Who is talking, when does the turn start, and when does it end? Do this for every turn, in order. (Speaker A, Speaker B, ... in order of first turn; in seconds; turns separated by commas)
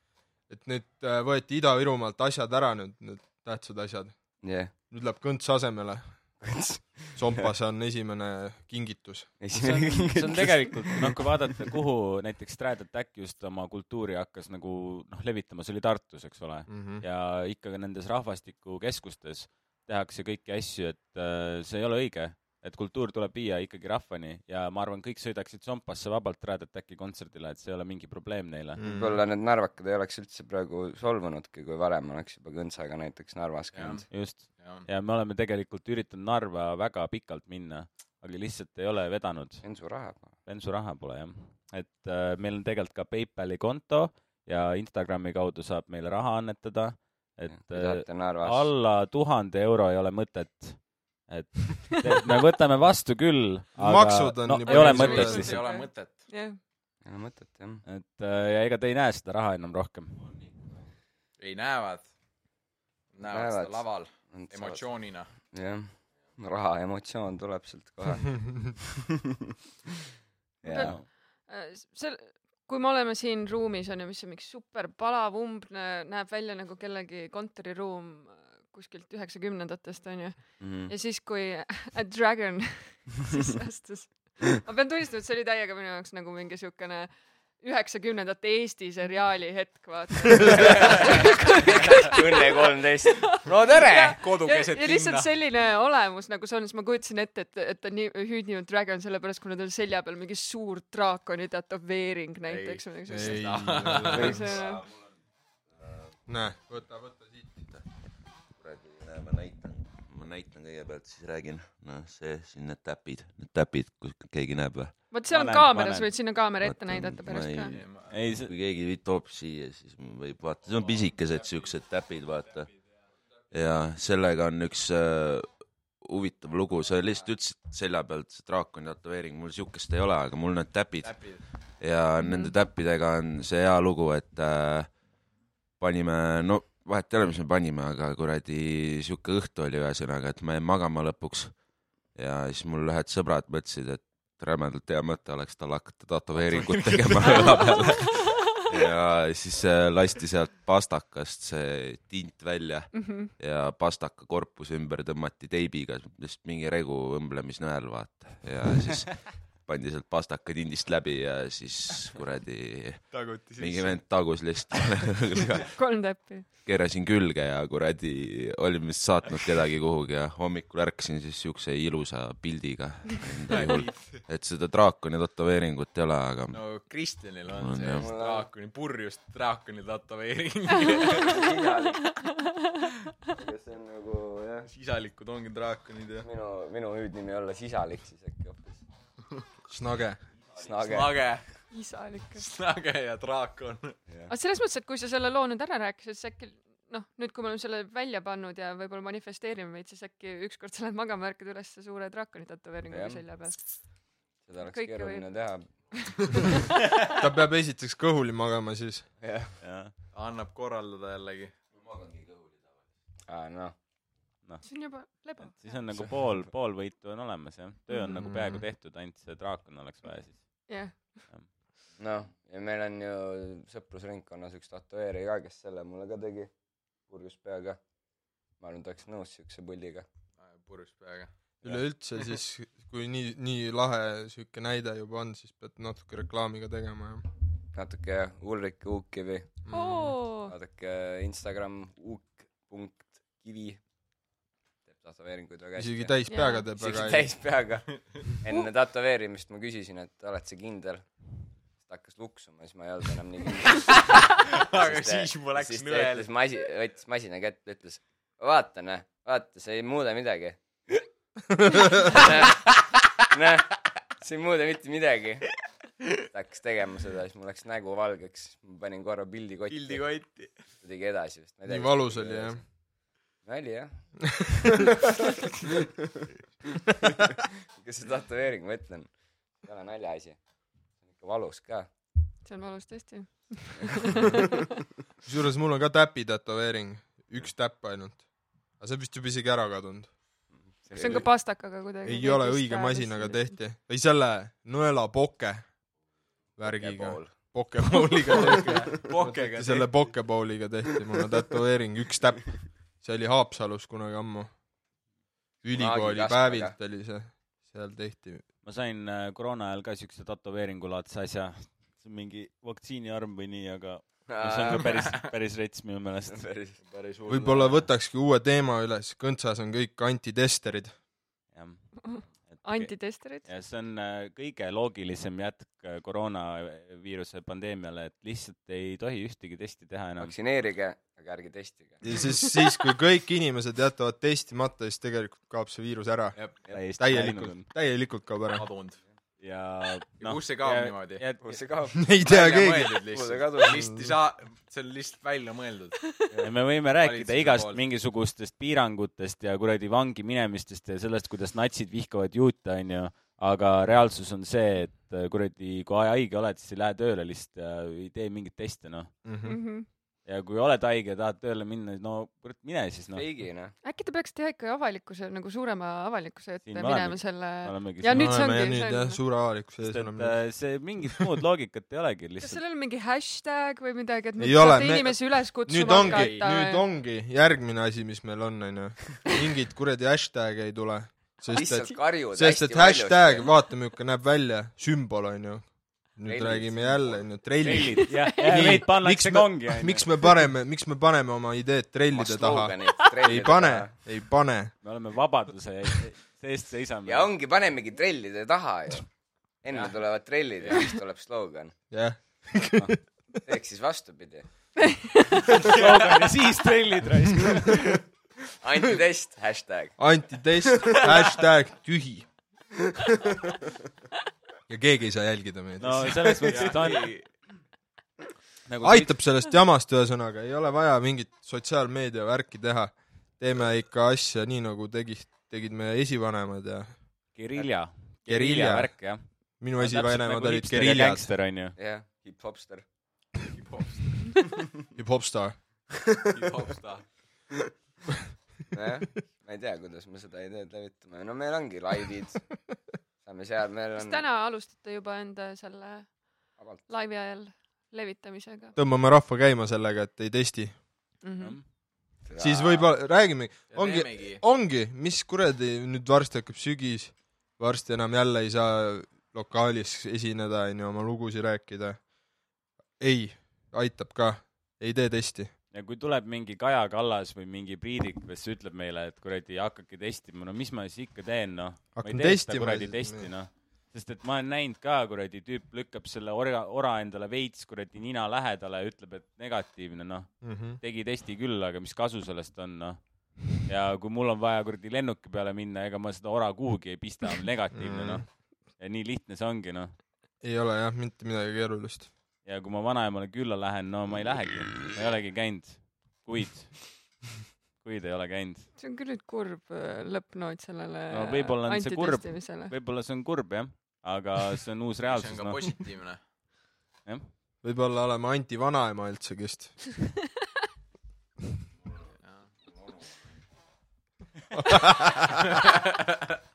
Speaker A: 0.5-4.3, Speaker B: 4.4-4.7, Speaker A: 4.9-6.4, Speaker B: 6.4-7.4, Speaker A: 7.1-9.3, Speaker B: 9.4-11.3, Speaker C: 9.5-28.8, Speaker A: 16.7-17.0, Speaker A: 28.8-29.2, Speaker B: 28.8-34.0, Speaker D: 33.7-34.9, Speaker C: 34.1-39.6, Speaker B: 39.6-40.3, Speaker C: 40.5-55.6, Speaker B: 47.5-48.7, Speaker A: 53.8-55.5, Speaker E: 54.7-56.6, Speaker D: 54.7-56.3, Speaker B: 57.0-57.8, Speaker C: 57.9-60.2, Speaker D: 61.4-62.1, Speaker D: 63.1-65.3, Speaker B: 63.2-64.8, Speaker B: 65.4-68.8, Speaker B: 70.6-71.0, Speaker E: 70.6-104.8, Speaker C: 70.7-71.0, Speaker B: 80.6-80.9, Speaker B: 90.4-94.2, Speaker D: 90.7-91.1, Speaker D: 93.7-95.3, Speaker D: 102.5-104.5, Speaker A: 103.1-104.5, Speaker A: 106.3-107.6, Speaker F: 108.5-115.0, Speaker E: 115.1-117.7, Speaker C: 115.3-116.3, Speaker F: 116.6-122.7, Speaker D: 117.7-118.2, Speaker C: 118.1-118.5, Speaker F: 123.5-134.9, Speaker D: 131.0-131.4, Speaker E: 132.2-132.6, Speaker F: 135.8-141.6, Speaker F: 142.1-165.7, Speaker D: 146.5-147.8, Speaker E: 152.9-153.3, Speaker D: 163.1-164.0, Speaker E: 165.7-166.5, Speaker F: 166.6-176.6, Speaker D: 173.5-174.2, Speaker D: 176.5-181.6, Speaker F: 177.5-178.1, Speaker B: 178.0-178.5, Speaker E: 180.9-181.2, Speaker B: 181.1-182.2, Speaker E: 182.2-182.7, Speaker B: 183.3-184.7, Speaker D: 184.7-186.3, Speaker B: 186.2-188.8, Speaker A: 189.7-190.2, Speaker B: 190.6-191.3, Speaker D: 190.7-191.5, Speaker E: 191.7-192.4, Speaker D: 192.3-194.0, Speaker E: 194.3-203.9, Speaker B: 202.9-203.2, Speaker B: 204.4-205.9, Speaker E: 204.6-206.6, Speaker A: 207.1-209.1, Speaker B: 209.2-209.6, Speaker C: 209.6-209.9, Speaker D: 210.1-211.5, Speaker F: 212.0-212.4, Speaker B: 213.3-213.7, Speaker E: 214.6-215.8, Speaker C: 215.4-220.7, Speaker B: 215.9-216.2, Speaker E: 217.9-218.2, Speaker A: 218.2-218.6, Speaker E: 220.7-221.2, Speaker B: 222.0-226.5, Speaker B: 227.1-227.8, Speaker B: 228.6-230.1, Speaker D: 230.4-231.3, Speaker A: 231.6-237.3, Speaker B: 237.7-239.6, Speaker A: 239.6-240.2, Speaker E: 239.7-240.5, Speaker B: 240.4-243.8, Speaker B: 244.9-246.1, Speaker A: 245.8-247.3, Speaker E: 246.3-246.7, Speaker B: 246.8-260.6, Speaker D: 247.9-248.2, Speaker D: 253.9-256.3, Speaker B: 261.9-265.5, Speaker B: 266.3-270.1, Speaker D: 269.7-270.7, Speaker B: 270.8-272.7, Speaker A: 271.6-272.6, Speaker B: 273.4-274.4, Speaker B: 277.8-280.4, Speaker B: 281.0-281.9, Speaker E: 282.4-284.6, Speaker A: 285.2-288.3, Speaker A: 288.8-290.1, Speaker B: 290.6-291.3, Speaker E: 290.9-293.6, Speaker A: 292.0-295.7, Speaker A: 296.6-304.5, Speaker B: 296.6-297.4, Speaker D: 298.4-300.1, Speaker A: 305.6-308.4, Speaker B: 305.7-306.8, Speaker C: 308.6-316.5, Speaker B: 314.3-315.1, Speaker B: 316.3-316.8, Speaker D: 316.8-317.8, Speaker A: 317.2-321.0, Speaker C: 321.5-330.3, Speaker E: 322.0-323.5, Speaker B: 330.2-332.0, Speaker A: 332.0-338.6, Speaker C: 336.7-337.7, Speaker D: 338.5-339.0, Speaker C: 339.4-341.6, Speaker D: 340.2-341.3, Speaker B: 341.4-342.1, Speaker A: 341.9-343.0, Speaker D: 342.2-346.2, Speaker B: 343.1-343.9, Speaker A: 343.8-344.1, Speaker C: 346.4-359.1, Speaker D: 347.0-347.8, Speaker A: 359.2-359.6, Speaker E: 359.4-359.9, Speaker C: 360.2-363.3, Speaker B: 363.1-363.7, Speaker E: 363.8-369.2, Speaker C: 366.6-368.4, Speaker A: 368.1-370.4, Speaker C: 369.8-372.6, Speaker E: 372.4-376.8, Speaker A: 374.4-394.7, Speaker D: 375.9-376.4, Speaker B: 381.5-383.5, Speaker B: 386.2-387.3, Speaker C: 387.6-390.1, Speaker E: 388.2-388.7, Speaker B: 392.1-393.9, Speaker C: 394.8-397.3, Speaker B: 397.1-399.1, Speaker B: 399.6-401.7, Speaker A: 401.9-403.0, Speaker B: 403.4-404.5, Speaker E: 405.1-405.4, Speaker C: 405.6-408.0, Speaker B: 408.6-410.1, Speaker A: 410.0-412.3, Speaker A: 414.7-416.7, Speaker C: 415.8-417.1, Speaker D: 416.4-417.3, Speaker C: 418.7-419.1, Speaker A: 418.8-427.0, Speaker C: 427.3-431.7, Speaker A: 428.3-431.3, Speaker B: 431.8-432.9, Speaker D: 433.4-434.6, Speaker A: 434.9-436.5, Speaker D: 436.3-437.1, Speaker B: 438.7-442.6, Speaker B: 443.2-444.2, Speaker E: 443.9-448.8, Speaker B: 446.6-446.8, Speaker A: 448.8-450.8, Speaker E: 451.2-451.6, Speaker C: 451.4-451.6, Speaker B: 452.2-452.9, Speaker A: 452.4-462.0, Speaker D: 453.7-454.4, Speaker A: 463.0-465.5, Speaker C: 465.7-489.9, Speaker A: 471.9-473.3, Speaker A: 480.4-480.8, Speaker A: 487.7-488.2, Speaker A: 490.4-492.1, Speaker C: 492.4-497.0, Speaker C: 497.8-498.7, Speaker E: 498.8-502.7, Speaker C: 501.1-505.8, Speaker D: 505.0-506.2, Speaker C: 507.0-507.3, Speaker A: 507.6-509.8, Speaker A: 514.5-515.4, Speaker D: 515.5-516.1